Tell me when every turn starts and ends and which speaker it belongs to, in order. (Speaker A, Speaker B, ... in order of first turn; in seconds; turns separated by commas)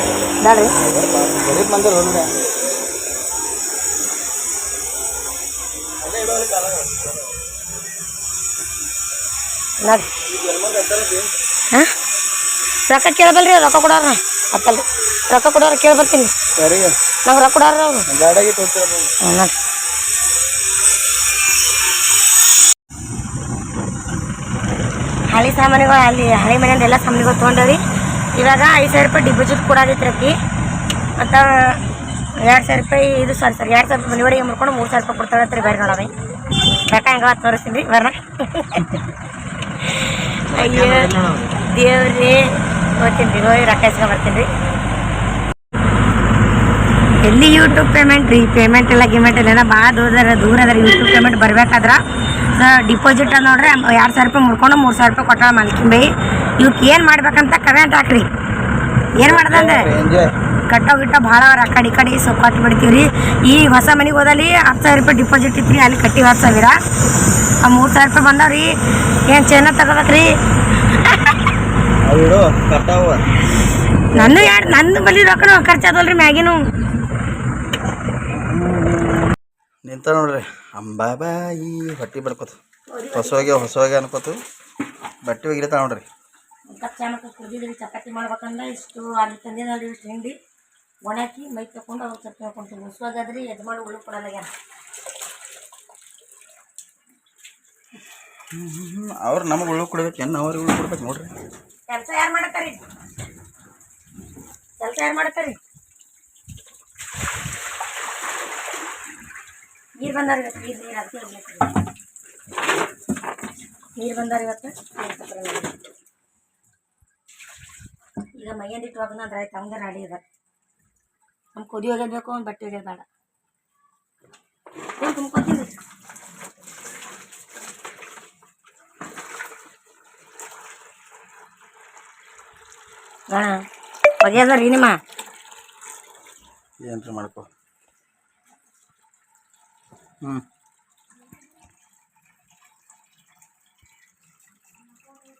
Speaker A: 0.4-0.7, Speaker B: 0.8-2.3, Speaker B: 6.0-7.3, Speaker B: 10.3-11.3, Speaker A: 12.8-16.3, Speaker B: 16.6-16.9, Speaker A: 17.2-18.1, Speaker B: 18.1-19.1, Speaker A: 19.2-19.5, Speaker A: 25.3-27.8, Speaker A: 28.3-30.3, Speaker A: 31.2-31.8, Speaker A: 32.4-36.1, Speaker A: 36.9-38.9, Speaker A: 40.0-41.1, Speaker B: 40.5-41.6, Speaker A: 41.6-44.5, Speaker A: 47.2-52.0, Speaker A: 52.5-58.3, Speaker A: 59.1-59.9, Speaker B: 59.2-60.3, Speaker A: 60.7-66.8, Speaker A: 67.6-68.7, Speaker A: 69.3-70.3, Speaker B: 72.0-73.2, Speaker A: 74.1-76.6, Speaker B: 74.1-74.8, Speaker B: 78.3-79.3, Speaker B: 79.8-82.6, Speaker A: 82.9-83.6, Speaker B: 83.1-84.4, Speaker B: 85.2-86.0, Speaker A: 86.7-90.3, Speaker A: 91.0-94.5, Speaker B: 98.5-101.3, Speaker A: 101.9-102.8, Speaker A: 104.8-105.6, Speaker A: 110.0-111.7, Speaker A: 114.0-115.7, Speaker A: 118.3-120.2, Speaker A: 121.5-123.0, Speaker A: 125.0-125.8, Speaker A: 133.3-133.6, Speaker A: 134.2-135.0, Speaker B: 136.8-137.5